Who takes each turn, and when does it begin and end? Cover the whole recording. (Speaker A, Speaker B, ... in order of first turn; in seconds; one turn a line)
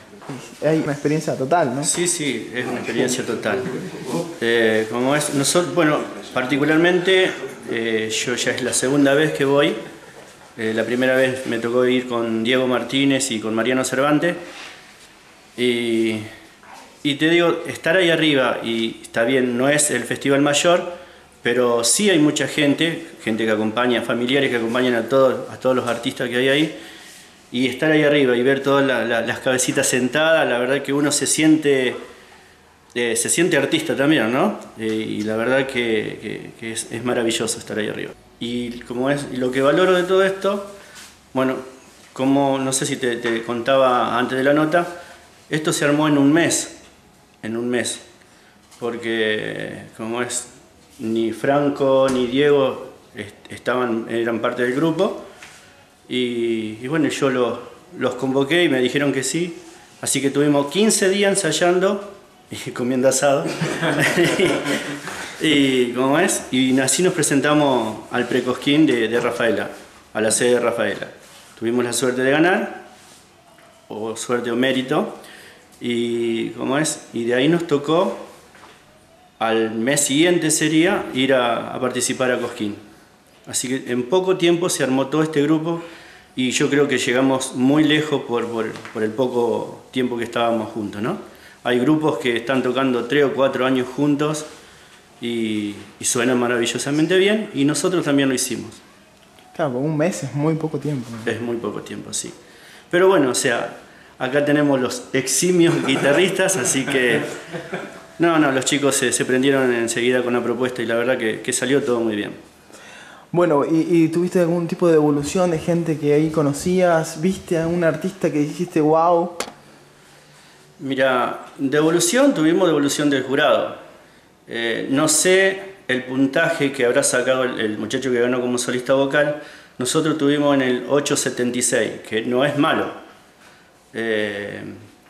Speaker A: 0.3-1.9
Speaker B: 1.8-3.8
Speaker B: 4.4-9.8
Speaker B: 10.6-14.4
Speaker B: 15.6-16.3
Speaker B: 17.0-26.8
Speaker B: 27.5-32.0
Speaker B: 32.9-40.7
Speaker B: 41.3-41.6
Speaker B: 42.1-44.9
Speaker B: 45.5-46.8
Speaker B: 47.4-48.0
Speaker B: 48.8-55.2
Speaker B: 56.1-64.8
Speaker B: 65.4-72.8
Speaker B: 73.9-75.2
Speaker B: 75.8-78.3
Speaker B: 79.4-82.8
Speaker B: 83.5-85.8
Speaker B: 86.4-94.5
Speaker B: 95.2-98.8
Speaker A: 99.5-101.3
Speaker B: 101.2-102.3
Speaker B: 102.9-107.3
Speaker B: 108.2-112.4
Speaker A: 113.3-119.4
Speaker B: 120.8-123.8
Speaker B: 124.5-132.9
Speaker B: 133.9-134.8